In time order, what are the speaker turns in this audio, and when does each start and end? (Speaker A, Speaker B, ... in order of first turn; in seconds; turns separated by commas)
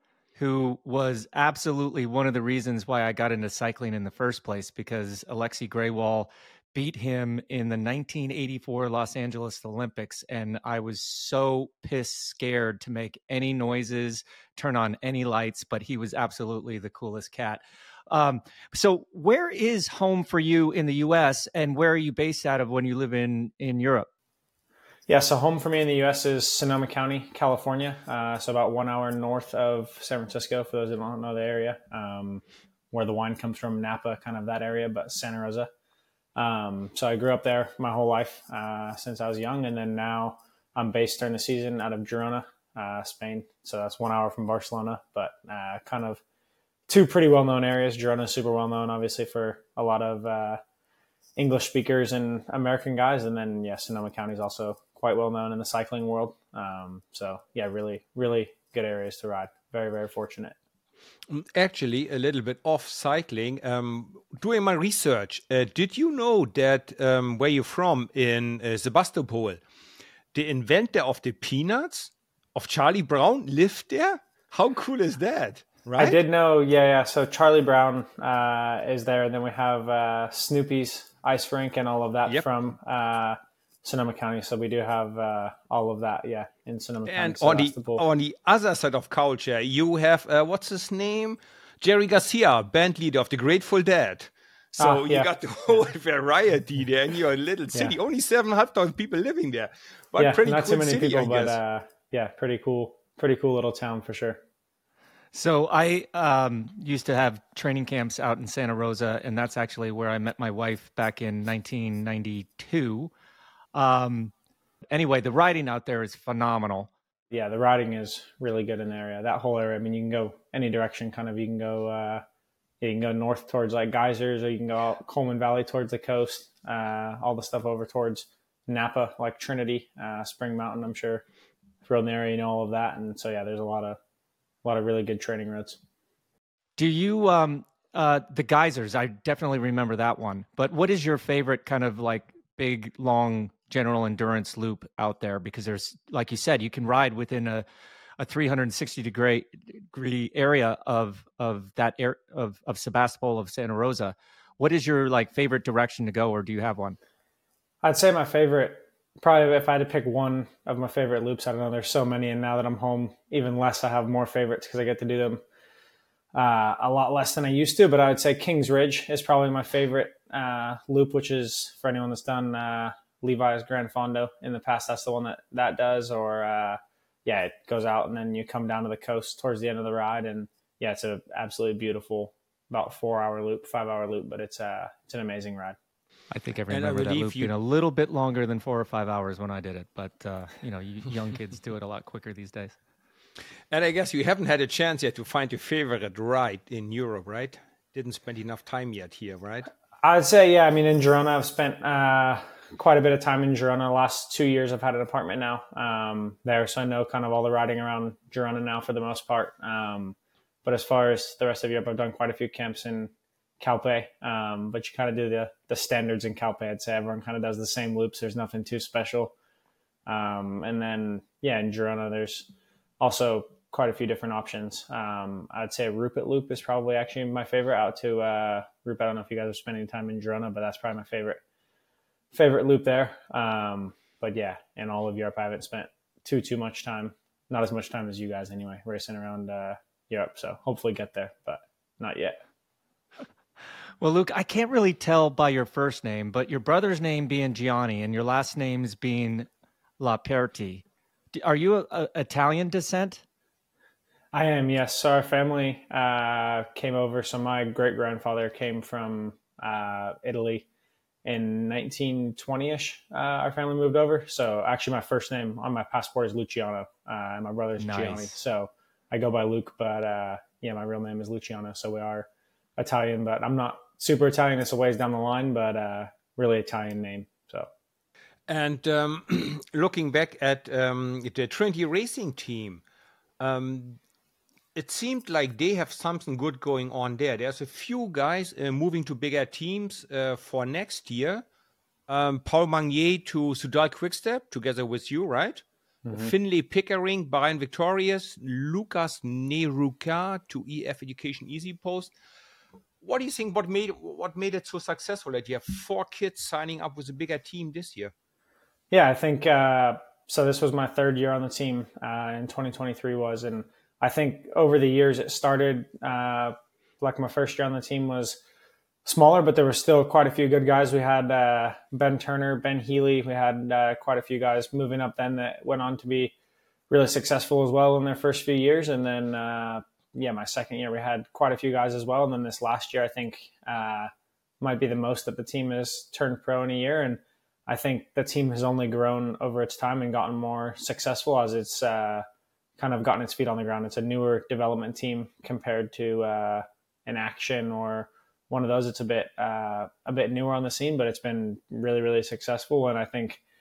Speaker A: 0.4-24.1, Speaker B: 25.1-35.7, Speaker B: 36.4-46.2, Speaker B: 46.9-50.6, Speaker B: 51.4-60.5, Speaker C: 61.3-69.6, Speaker C: 70.3-76.2, Speaker B: 76.0-88.0, Speaker C: 87.1-101.6, Speaker B: 94.8-95.3, Speaker B: 100.2-104.4, Speaker A: 105.3-113.1, Speaker A: 113.7-114.3, Speaker A: 114.9-116.9, Speaker B: 117.3-122.2, Speaker B: 122.8-131.2, Speaker B: 131.8-134.0, Speaker B: 134.6-135.8, Speaker A: 136.8-147.7, Speaker A: 148.2-157.0, Speaker B: 157.8-165.4, Speaker B: 166.3-185.8, Speaker A: 186.3-192.8, Speaker C: 186.7-187.5, Speaker C: 193.7-199.7, Speaker B: 200.0-219.3, Speaker B: 220.1-222.5, Speaker B: 223.0-231.4, Speaker B: 232.3-242.4, Speaker A: 244.0-249.5, Speaker A: 250.0-250.8, Speaker A: 251.3-253.2, Speaker B: 254.3-260.7, Speaker B: 261.2-277.7, Speaker A: 267.8-268.4, Speaker C: 278.5-282.8, Speaker C: 283.4-284.0, Speaker C: 284.8-291.4, Speaker C: 292.1-302.1, Speaker B: 296.1-296.3, Speaker C: 303.0-308.1, Speaker B: 308.9-318.4, Speaker B: 319.1-326.3, Speaker B: 326.9-342.2, Speaker B: 342.8-353.4